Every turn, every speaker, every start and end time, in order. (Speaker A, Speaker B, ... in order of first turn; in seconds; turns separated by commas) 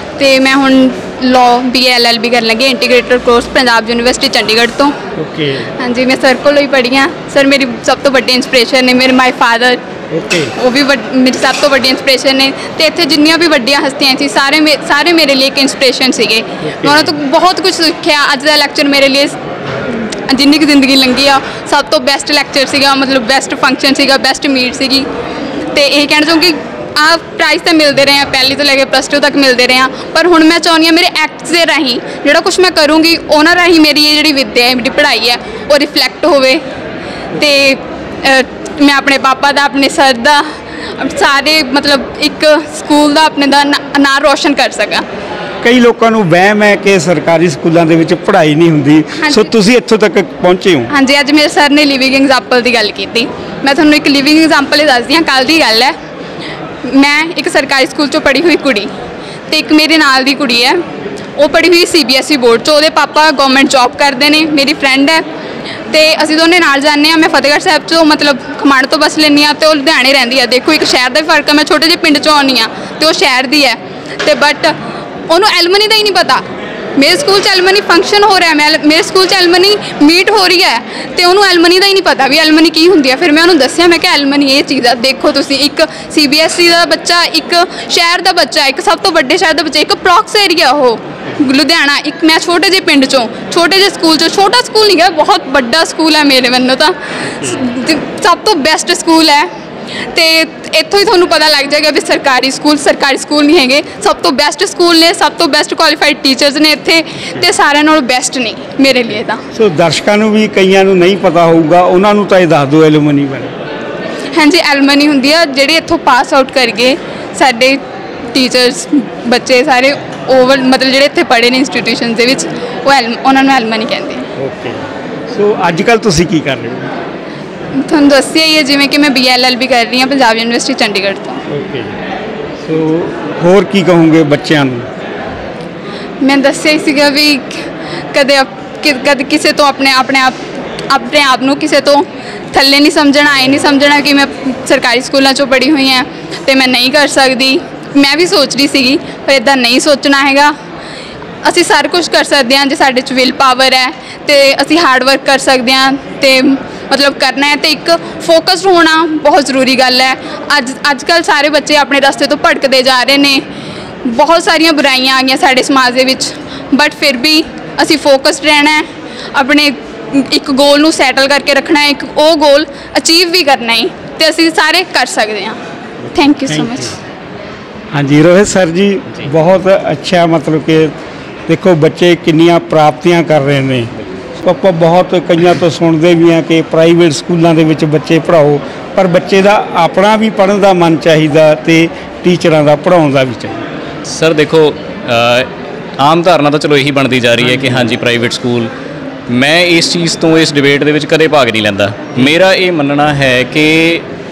Speaker A: 0.2-5.0, Speaker B: 5.2-5.7, Speaker A: 5.8-9.8, Speaker B: 10.1-10.5, Speaker A: 10.6-19.4, Speaker B: 16.6-17.1, Speaker A: 20.3-25.1, Speaker A: 25.6-36.6, Speaker A: 37.4-45.0, Speaker B: 45.6-50.9, Speaker A: 49.2-49.5, Speaker A: 50.9-56.0, Speaker A: 56.9-58.9, Speaker A: 59.5-60.8, Speaker A: 61.4-65.2, Speaker A: 65.9-74.7, Speaker A: 75.3-76.4, Speaker A: 77.0-99.5, Speaker B: 97.2-97.7, Speaker A: 100.0-109.4, Speaker B: 107.2-107.5, Speaker B: 109.5-113.6, Speaker A: 114.3-117.8, Speaker A: 118.3-124.2, Speaker B: 124.4-126.9, Speaker A: 127.8-131.4, Speaker B: 131.5-132.0, Speaker B: 132.6-134.9, Speaker A: 136.2-150.5, Speaker A: 151.4-163.4, Speaker A: 164.0-175.6, Speaker B: 176.1-177.0, Speaker A: 176.1-177.0, Speaker B: 177.9-180.9, Speaker B: 181.5-193.6, Speaker C: 194.1-198.7, Speaker B: 197.4-197.9, Speaker C: 199.3-204.1